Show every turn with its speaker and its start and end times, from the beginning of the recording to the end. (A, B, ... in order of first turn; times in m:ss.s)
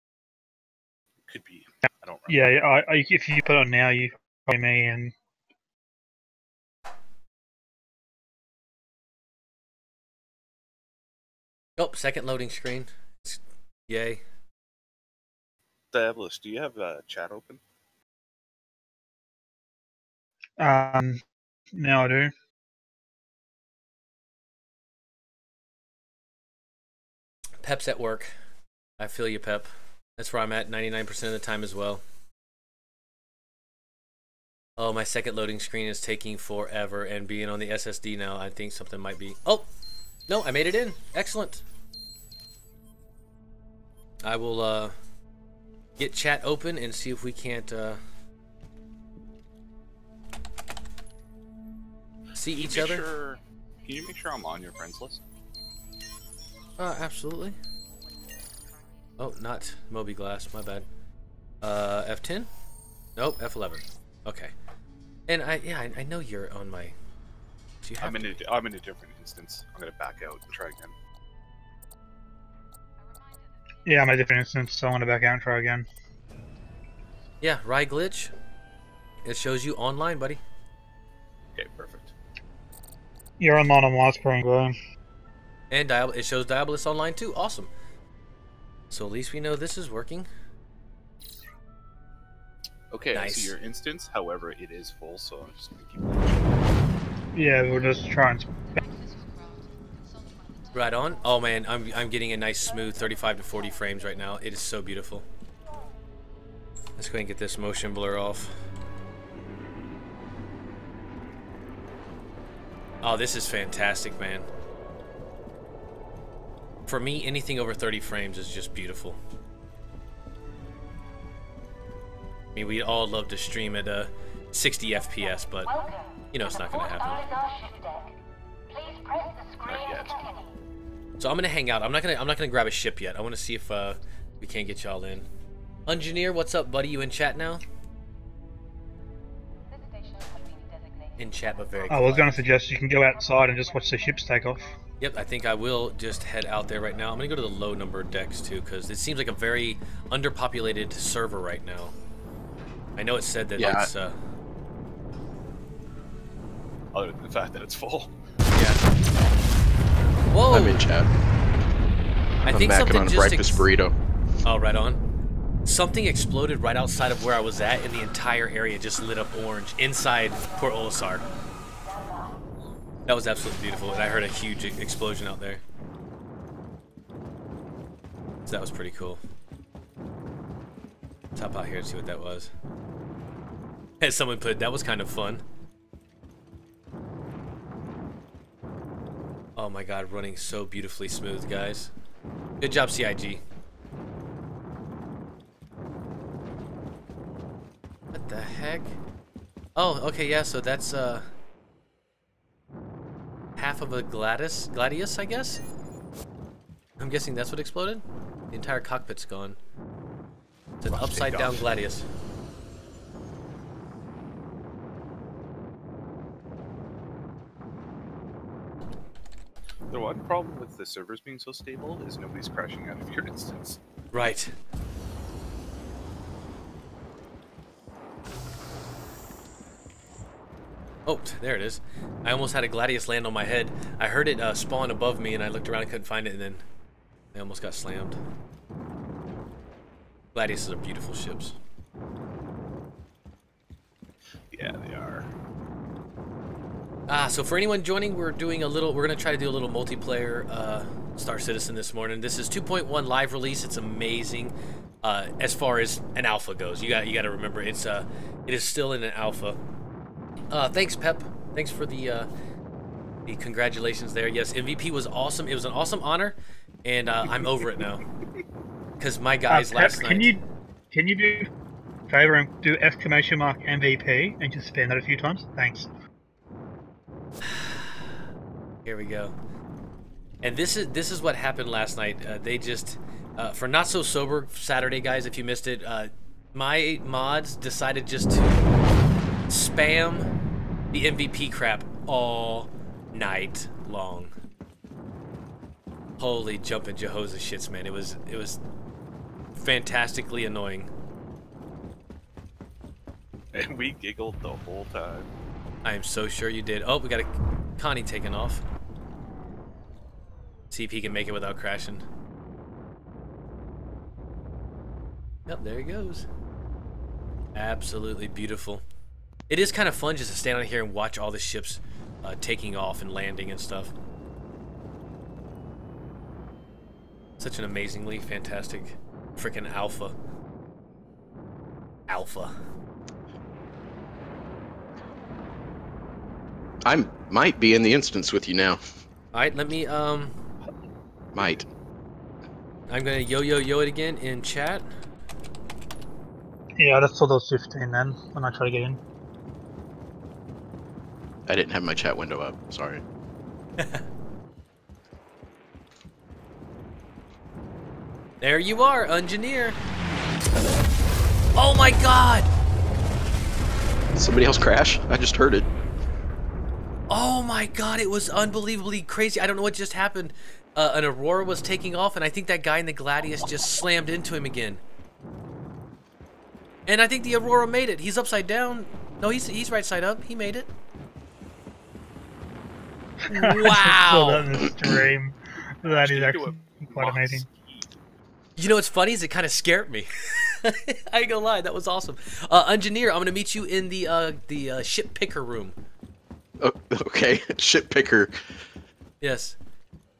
0:01.3-0:02.6 A
0:02.3-0:05.1 B
0:11.8-0:14.2 C
0:15.9-0:17.6 A
0:20.6-0:21.2 B
0:21.8-0:22.3 B
0:27.6-0:28.3 C
0:29.0-0:32.0 C
0:34.8-0:39.7 C
0:40.3-0:41.6 C
0:44.2-0:45.0 C
0:46.0-0:48.0 C
0:52.4-0:53.1 C
0:52.6-0:55.2 A
0:56.8-0:57.6 C
0:59.2-1:00.9 C
1:01.6-1:02.5 C
1:03.2-1:04.5 C
1:05.3-1:07.0 C
1:07.8-1:08.4 C
1:08.0-1:10.9 A
1:13.8-1:15.9 B
1:17.4-1:18.3 C
1:19.2-1:20.4 C
1:21.6-1:22.1 A
1:23.4-1:24.8 B
1:25.7-1:27.7 C
1:28.9-1:30.3 C
1:32.9-1:36.6 A
1:33.1-1:33.5 C
1:37.3-1:38.5 B
1:40.7-1:45.3 C
1:47.0-1:48.5 C
1:53.0-1:54.5 C
1:56.9-1:59.2 C
2:02.6-2:05.7 C
2:06.3-2:07.3 C
2:09.6-2:10.2 A
2:11.2-2:15.3 C
2:15.9-2:17.6 C
2:21.2-2:22.4 C
2:21.9-2:24.7 B
2:25.0-2:31.9 C
2:33.0-2:34.2 C
2:33.6-2:33.9 D
2:36.9-2:38.1 A
2:38.6-2:38.8 C
2:40.3-2:40.8 C
2:40.5-2:41.1 D
2:42.4-2:43.7 C
2:42.5-2:43.9 D
2:44.4-2:45.0 C
2:45.6-2:51.3 C
2:53.1-2:55.6 C
2:58.5-2:59.2 C
3:01.4-3:02.5 C
3:04.0-3:05.4 C
3:09.6-3:11.9 C
3:12.6-3:13.4 C
3:18.1-3:19.0 C
3:19.8-3:21.3 C
3:23.6-3:25.6 C
3:27.0-3:29.6 C
3:30.8-3:32.1 C
3:30.9-3:31.7 A
3:39.9-3:43.8 A
3:44.1-3:44.5 C
3:51.1-3:56.6 C
3:57.3-3:58.2 C
4:00.4-4:01.6 C
4:04.5-4:05.3 A
4:07.1-4:19.6 C
4:20.5-4:22.3 C
4:23.3-4:28.0 C
4:29.0-4:30.3 C
4:29.5-4:31.5 B
4:32.1-4:35.9 B
4:37.5-4:37.9 C
4:38.8-4:39.4 C
4:40.4-4:48.6 C
4:49.5-4:50.3 C
4:50.9-4:54.3 C
4:56.2-4:58.6 C
4:59.6-5:00.9 C
5:03.5-5:05.3 A
5:05.8-5:08.6 C
5:10.7-5:12.0 C
5:15.5-5:16.3 C
5:17.6-5:18.8 C
5:19.5-5:23.9 C
5:27.4-5:30.2 C
5:32.1-5:32.5 C
5:36.8-5:38.8 D
5:39.3-5:40.3 C
5:41.4-5:41.7 D
5:42.9-5:44.9 C
5:46.8-5:49.0 B
5:51.5-5:53.0 D
5:58.4-5:59.8 C
6:01.6-6:02.5 C
6:04.2-6:05.7 D
6:07.1-6:14.8 C
6:16.9-6:20.7 C
6:23.3-6:27.5 B
6:23.3-6:24.5 C
6:25.8-6:27.9 A
6:28.6-6:35.8 C
6:36.6-6:38.4 D
6:39.2-6:39.6 C